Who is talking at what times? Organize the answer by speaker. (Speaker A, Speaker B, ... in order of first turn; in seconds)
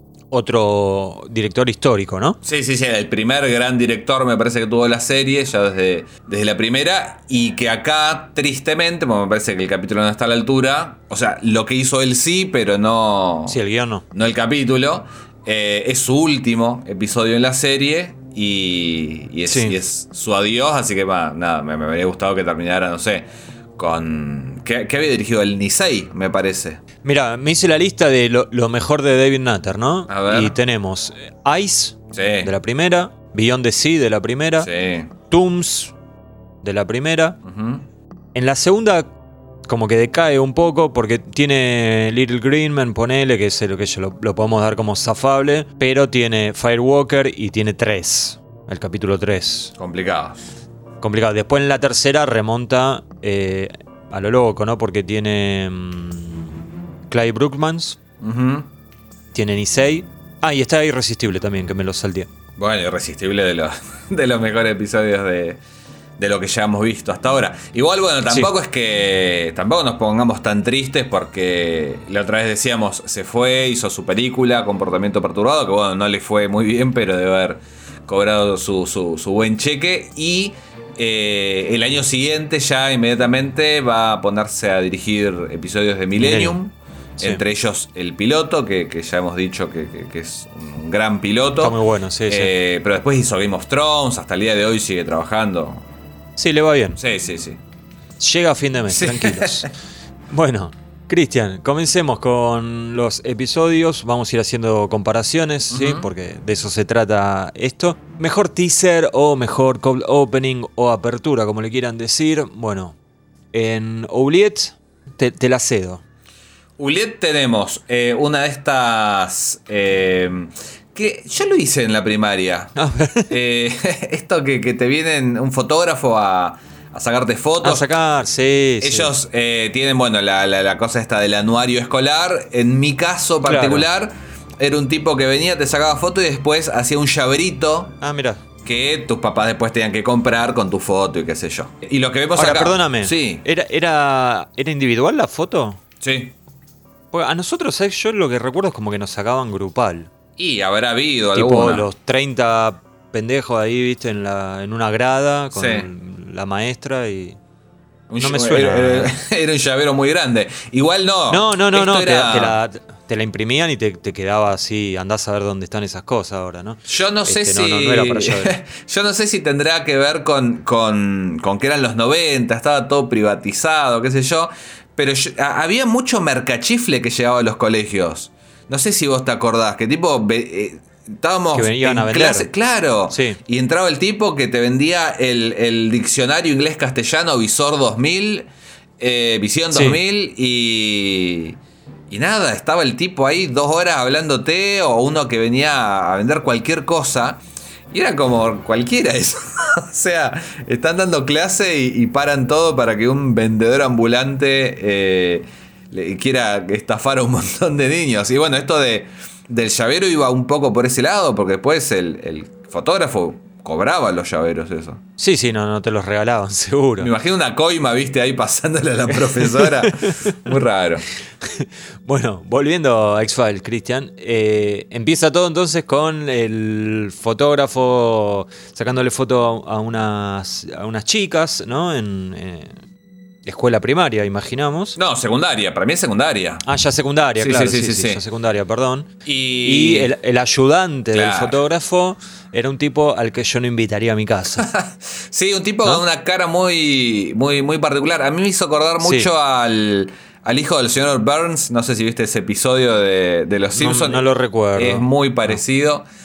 Speaker A: 0.3-2.4, 13.5-14.0, 19.5-19.8, 27.0-34.7, 35.3-35.9, 36.6-37.4, 38.4-39.1, 39.7-49.7, 51.0-56.5, 57.1-58.0, 59.3-62.3, 86.2-86.6, 87.2-87.4, 91.6-92.5, 96.4-97.0, 98.2-99.7, 100.3-113.0, 113.5-116.0, 122.8-123.3, 127.6-129.1, 133.4-133.9, 138.0-138.4, 142.4-145.8, 147.1-150.1, 151.3-157.4, 158.2-159.1, 161.3-168.6, 181.5-182.5, 183.1-183.4, 189.7-190.0, 215.2-217.1, 219.5-220.5, 221.4-232.8, 233.4-235.0, 236.7-239.1, 239.6-244.7, 249.0-249.3, 253.7-255.6
Speaker B: 2.4-13.6, 14.1-26.8, 30.1-30.6, 32.1-32.5, 34.6-35.1, 37.5-37.9, 49.8-50.4, 58.2-58.7, 62.6-65.6, 66.2-91.8, 92.3-95.8, 97.0-97.6, 98.9-99.7, 105.7-106.1, 116.8-122.7, 123.3-127.9, 128.8-138.0, 138.7-143.4, 146.0-146.3, 150.4-151.9, 155.5-155.9, 158.1-162.6, 166.9-188.5, 189.0-191.6, 192.1-215.0, 217.0-221.1, 235.0-236.7, 237.4-238.2, 239.2-240.1, 241.1-241.6, 244.6-254.2, 254.8-256.1